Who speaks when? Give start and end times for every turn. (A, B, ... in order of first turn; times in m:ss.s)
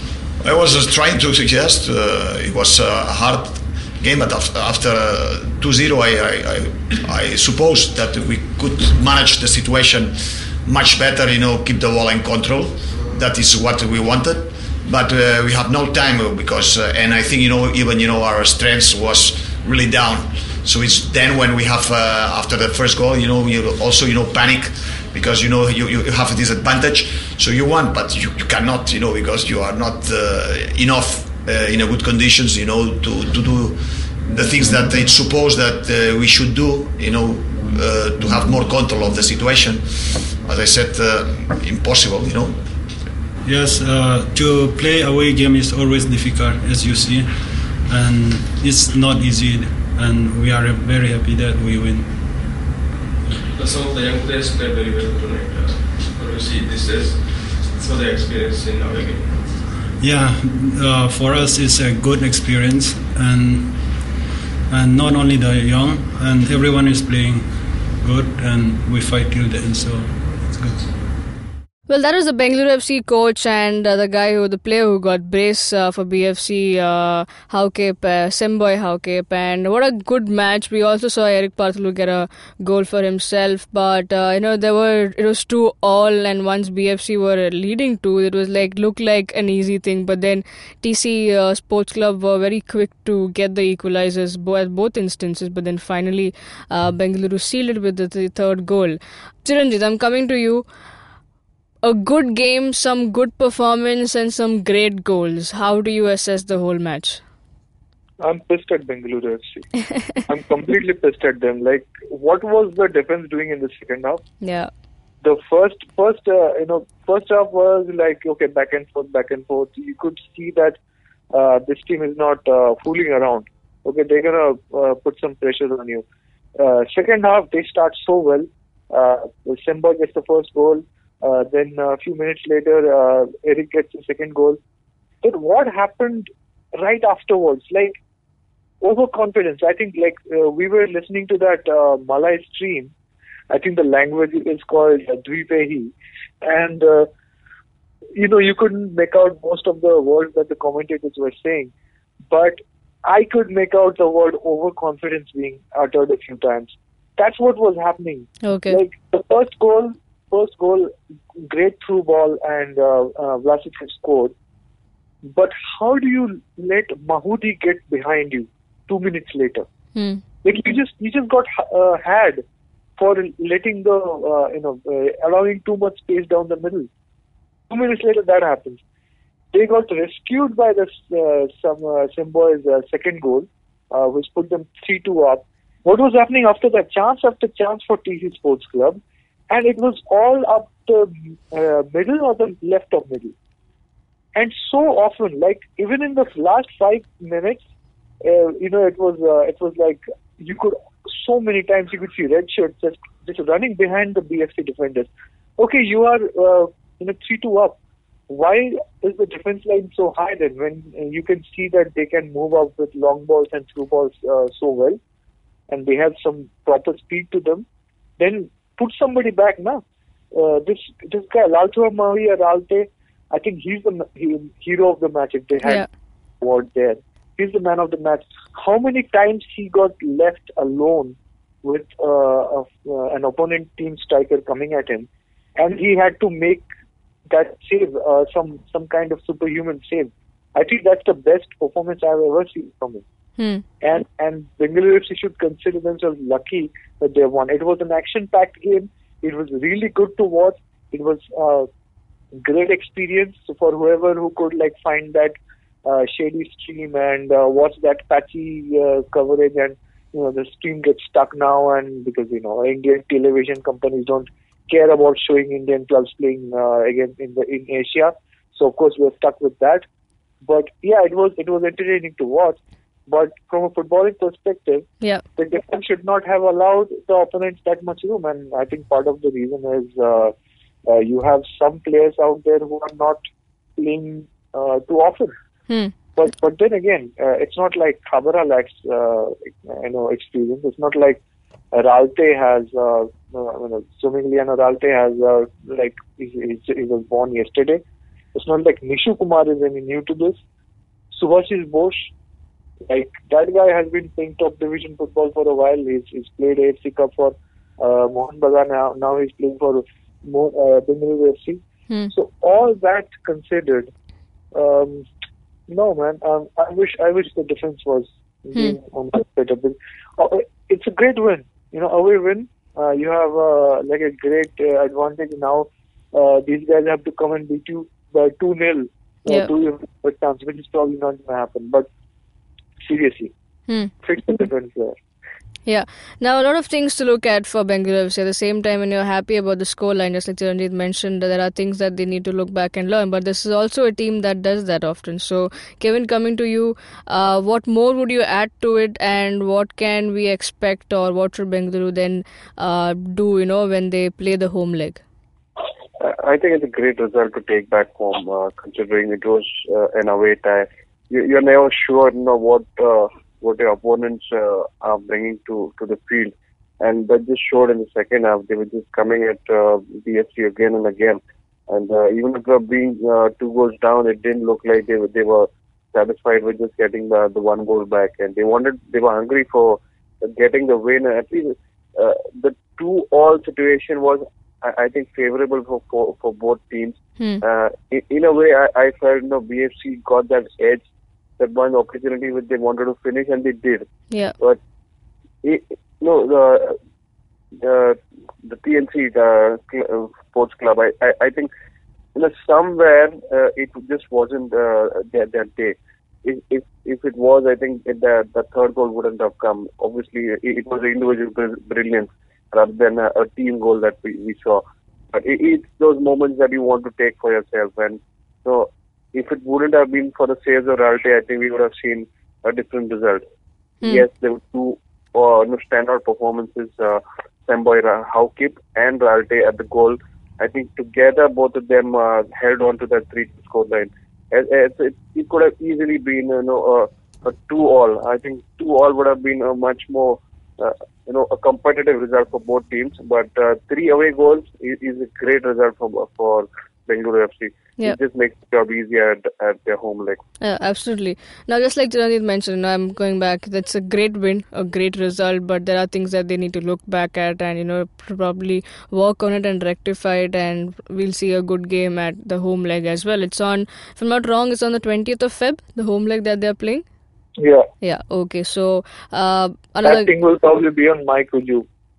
0:00.4-0:42.7 A
0:43.4-0:52.5 B
0:53.5-0:59.5 C
1:00.0-1:04.1 B
1:04.7-1:10.9 B
1:11.9-1:40.6 D
1:41.8-1:47.2 D
1:48.2-1:54.2 E
1:54.4-1:54.7 D
1:55.2-2:00.8 E
2:01.3-2:06.0 E
2:06.6-2:14.6 E
2:15.2-2:18.0 E
2:18.8-2:22.9 E
2:23.5-2:27.1 E
2:28.1-2:31.7 E
2:32.3-2:44.3 E
2:38.4-2:38.8 D
2:45.2-2:49.6 E
2:49.9-2:50.2 D
2:50.4-2:52.4 E
2:53.0-2:56.9 E
2:57.7-2:58.8 E
2:59.5-3:13.3 E
3:14.3-3:17.6 E
3:18.2-3:27.8 E
3:28.3-3:35.0 E
3:35.7-3:37.6 E
3:38.2-3:45.8 E
3:46.4-3:56.6 E
3:57.3-4:03.0 E
4:03.4-4:03.6 D
4:03.8-4:11.7 E
4:12.4-4:15.3 E
4:15.8-4:29.8 E
4:30.4-4:40.3 E
4:40.8-4:43.2 E
4:43.8-4:45.3 E
4:46.2-4:51.2 E
4:51.7-4:57.8 E
4:58.3-5:00.4 E
5:01.1-5:02.1 E
5:02.9-5:13.9 E
5:14.5-5:15.0 E
5:15.7-5:31.9 E
5:32.8-5:33.3 E
5:34.0-5:35.0 E
5:35.6-5:55.0 D
5:56.0-6:30.8 F
6:31.4-6:33.8 F
6:35.4-6:36.8 F
6:37.6-6:41.5 F
6:42.1-7:03.2 F
7:03.8-7:30.2 F
7:30.4-7:46.8 D
7:47.4-7:47.7 E
7:47.8-7:50.1 D
7:49.8-7:51.6 E